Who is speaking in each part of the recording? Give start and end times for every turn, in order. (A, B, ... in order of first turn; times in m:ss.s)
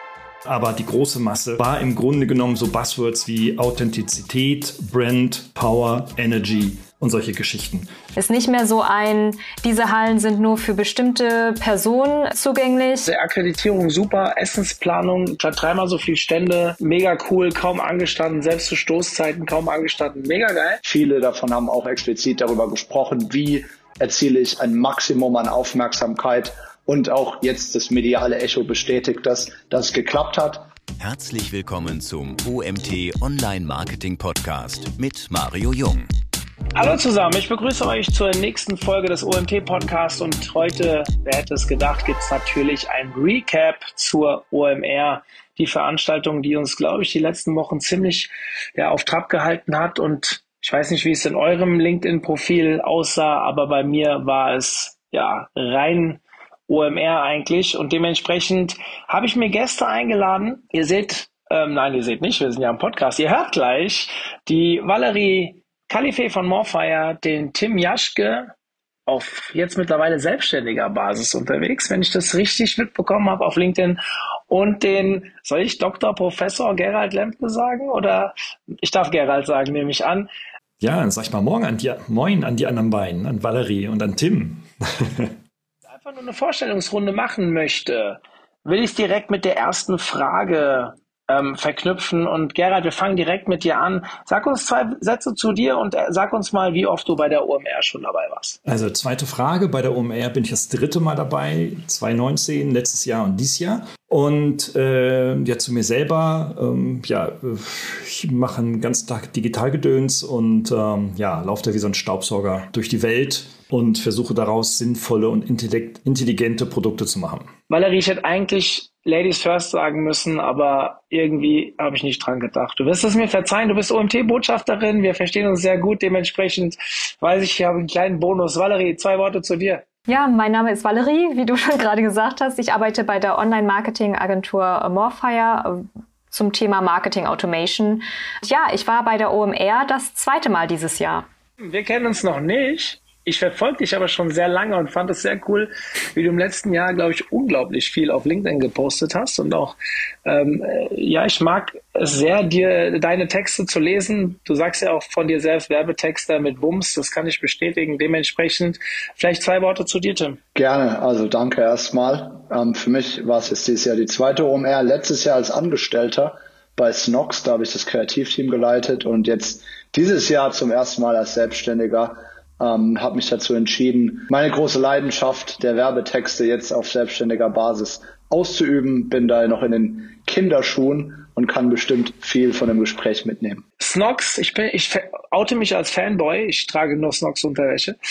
0:00.5-0:07.9 A
0:08.2-0:13.0 B
0:13.0-0:20.8 C
0:20.8-0:30.7 D
0:31.0-0:36.1 E
0:36.7-1:08.5 C
1:09.1-1:20.3 C
1:20.8-1:25.3 A
1:25.9-1:38.6 C
1:38.6-1:57.5 A
1:57.7-2:09.8 C
2:10.1-2:21.2 B
2:21.6-2:40.4 C
2:40.5-3:03.6 D
3:03.8-3:08.0 C